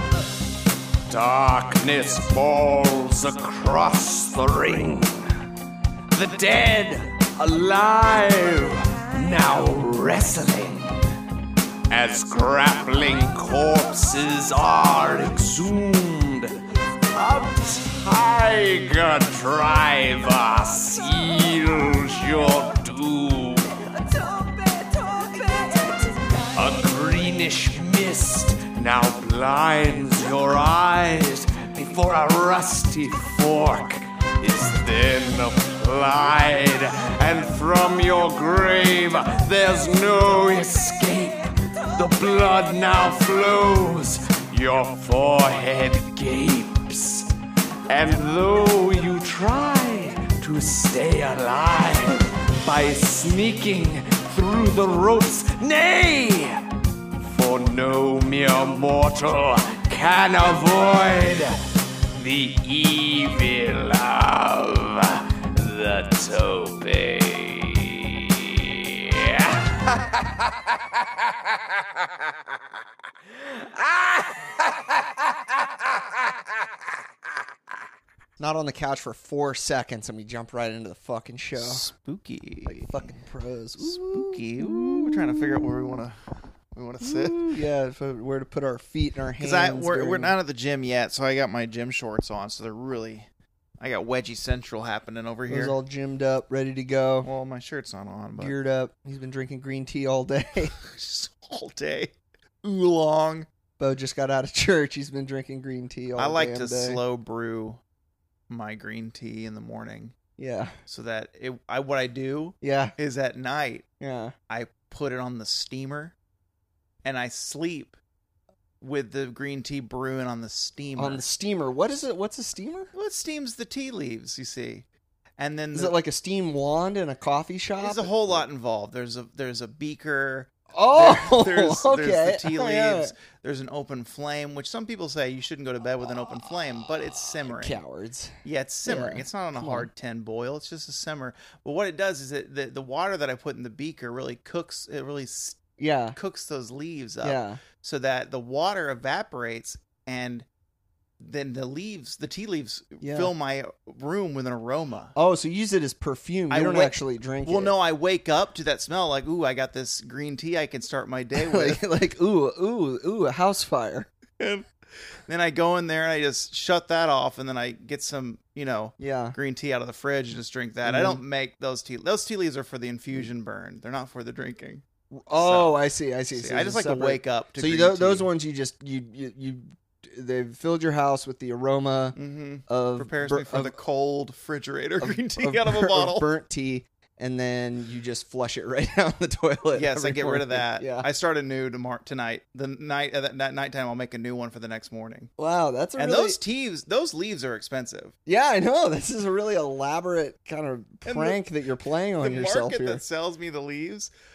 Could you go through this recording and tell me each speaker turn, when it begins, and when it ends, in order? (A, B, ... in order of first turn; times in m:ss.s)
0:01.1-0:05.3 A
0:06.1-0:11.1 A
0:11.9-0:16.6 A
0:17.1-0:23.9 A
0:24.2-0:26.3 B
0:26.5-0:47.3 A
0:47.9-0:56.6 A
0:57.2-1:01.6 A
1:02.2-1:10.1 A
1:13.6-1:15.0 A
1:18.4-1:21.8 B
1:21.6-1:23.1 C
1:22.7-1:26.0 B
1:23.8-1:27.5 C
1:27.0-1:30.3 B
1:29.4-1:33.3 C
1:33.8-1:35.8 C
1:35.5-1:37.3 B
1:37.2-1:38.6 C
1:38.4-1:40.7 B
1:40.8-1:43.5 C
1:43.8-1:47.0 B
1:46.2-1:47.8 C
1:48.5-1:50.2 C
1:50.4-1:50.8 B
1:50.9-1:53.8 C
1:52.6-1:53.0 B
1:54.0-1:54.4 B
1:54.5-1:56.2 C
1:57.0-1:58.0 C
1:58.8-2:01.2 C
2:01.0-2:02.9 B
2:02.9-2:04.9 C
2:05.4-2:06.0 C
2:05.7-2:08.4 B
2:07.8-2:17.8 C
2:10.7-2:13.1 B
2:17.4-2:19.9 B
2:18.4-2:25.6 C
2:25.8-2:26.2 B
2:26.2-2:30.5 C
2:27.2-2:27.6 B
2:31.2-2:35.1 C
2:33.0-2:33.3 B
2:35.2-2:37.8 B
2:36.5-2:41.8 C
2:41.3-2:44.1 B
2:44.4-2:44.6 C
2:45.3-2:54.8 C
2:49.0-2:49.4 B
2:50.9-2:51.2 B
2:55.1-3:03.8 B
2:55.4-2:55.8 C
2:56.3-2:58.3 C
3:02.2-3:06.3 C
3:05.0-3:11.1 B
3:09.7-3:15.3 C
3:15.4-3:16.4 B
3:16.0-3:18.1 C
3:18.3-3:23.0 B
3:21.0-3:21.4 C
3:22.2-3:24.1 C